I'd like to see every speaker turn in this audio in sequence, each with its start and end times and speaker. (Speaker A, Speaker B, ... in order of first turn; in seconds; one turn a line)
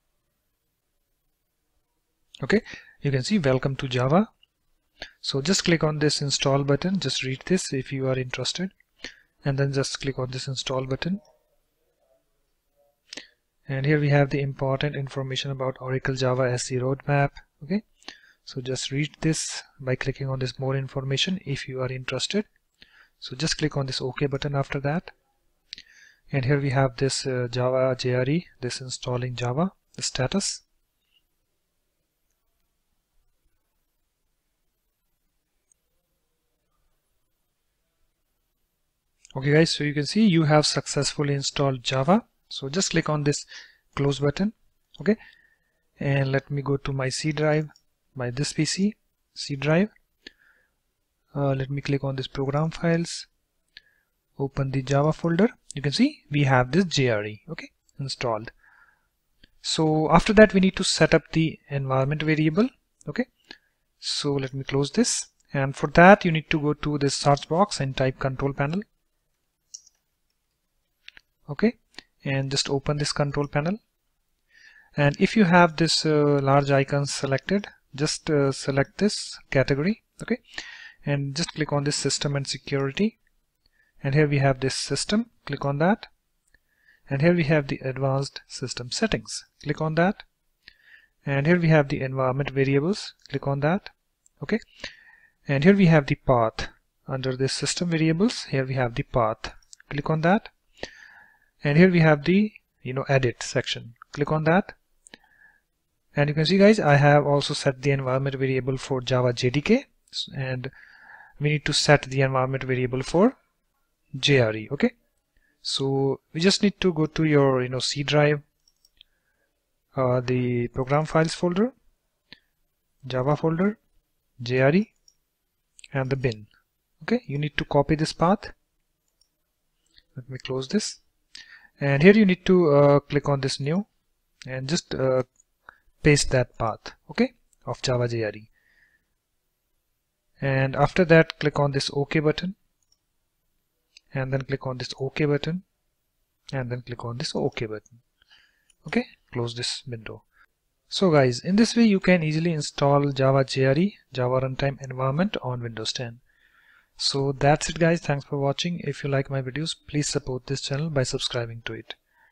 Speaker A: 2.4-4.3
Speaker A: 5.2-8.7
Speaker A: 9.4-11.2
Speaker A: 13.7-17.8
Speaker A: 18.4-22.5
Speaker A: 23.2-25.1
Speaker A: 26.3-30.6
Speaker A: 39.3-45.2
Speaker A: 46.0-49.9
Speaker A: 51.3-53.3
Speaker A: 54.4-58.5
Speaker A: 59.6-63.3
Speaker A: 64.0-68.8
Speaker A: 71.5-73.8
Speaker A: 75.0-80.4
Speaker A: 81.0-83.2
Speaker A: 84.0-86.1
Speaker A: 87.1-90.2
Speaker A: 91.2-94.6
Speaker A: 95.5-100.5
Speaker A: 101.6-104.8
Speaker A: 106.2-110.7
Speaker A: 111.4-113.4
Speaker A: 114.2-114.9
Speaker A: 115.6-118.4
Speaker A: 120.0-121.7
Speaker A: 123.0-123.8
Speaker A: 124.4-124.9
Speaker A: 125.9-126.5
Speaker A: 127.0-128.5
Speaker A: 130.2-131.0
Speaker A: 131.8-133.9
Speaker A: 134.5-135.3
Speaker A: 136.0-138.5
Speaker A: 140.4-142.6
Speaker A: 144.1-145.6
Speaker A: 146.5-148.0
Speaker A: 148.8-150.2
Speaker A: 150.9-156.2
Speaker A: 157.0-162.0